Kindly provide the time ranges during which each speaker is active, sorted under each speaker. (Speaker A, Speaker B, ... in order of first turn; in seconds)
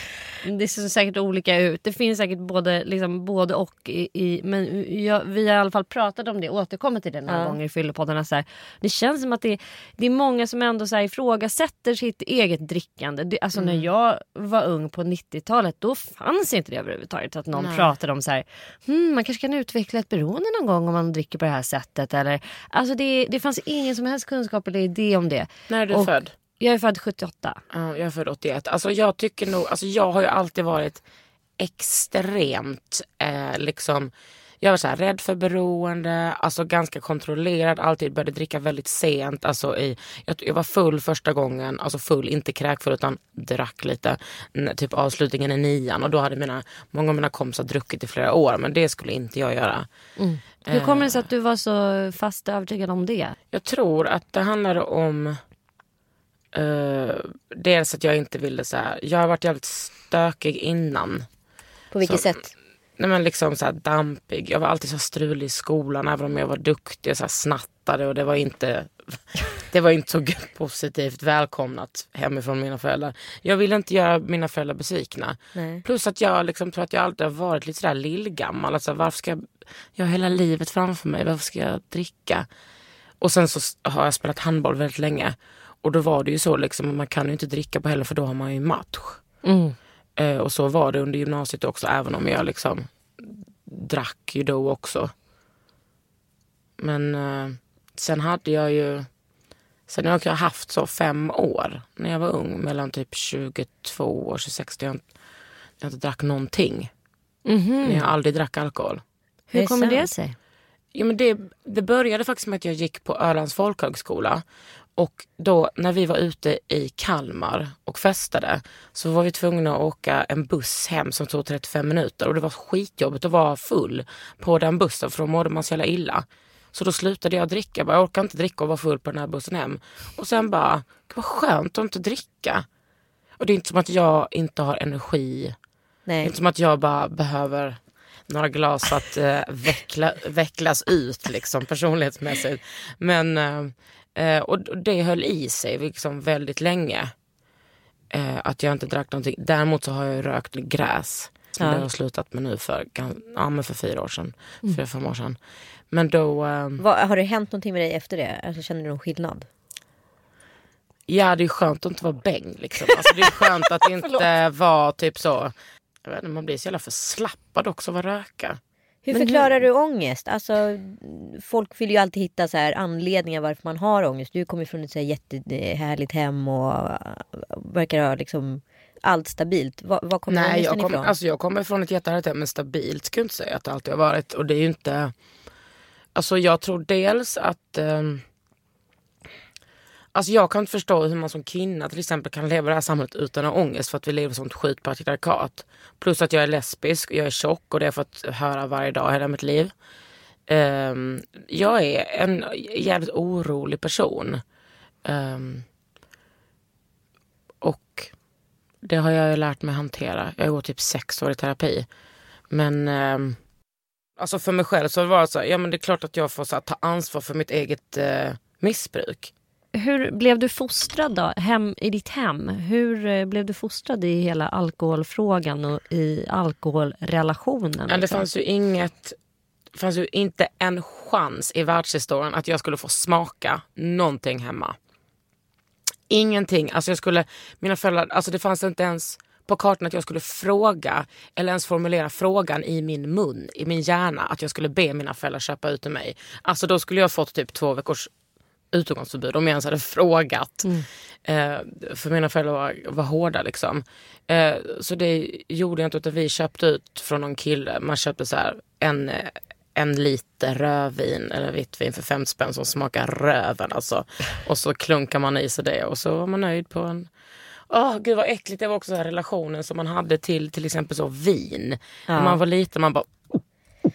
Speaker A: 0.4-27.6, 50.2-53.4, 89.4-89.8, 107.5-108.1, 109.5-110.3, 169.1-169.4, 219.7-228.2
Speaker B: 7.3-7.6, 61.9-62.5, 75.5-75.8, 109.5-110.1, 136.1-136.3, 151.6-151.9, 156.8-159.5, 169.0-181.1, 272.1-272.4
Speaker C: 13.6-13.8, 17.6-17.9, 25.7-26.3, 27.7-31.0, 31.6-49.9, 50.6-51.3, 53.5-55.4, 56.5-61.2, 62.0-62.3, 63.0-82.5, 83.2-89.2, 90.2-95.1, 96.8-99.1, 99.9-105.0, 105.8-106.9, 107.8-109.0, 110.9-114.4, 115.0-132.7, 133.4-135.5, 136.2-147.1, 148.1-155.4, 155.9-156.8, 161.1-165.5, 166.0-168.6, 180.3-185.1, 186.1-188.2, 190.1-199.7, 200.5-204.4, 205.0-205.6, 207.6-208.1, 208.8-211.9, 212.5-213.4, 214.2-219.3, 227.9-229.2, 229.7-234.8, 236.1-248.1, 248.7-250.7, 251.2-267.1, 267.7-273.4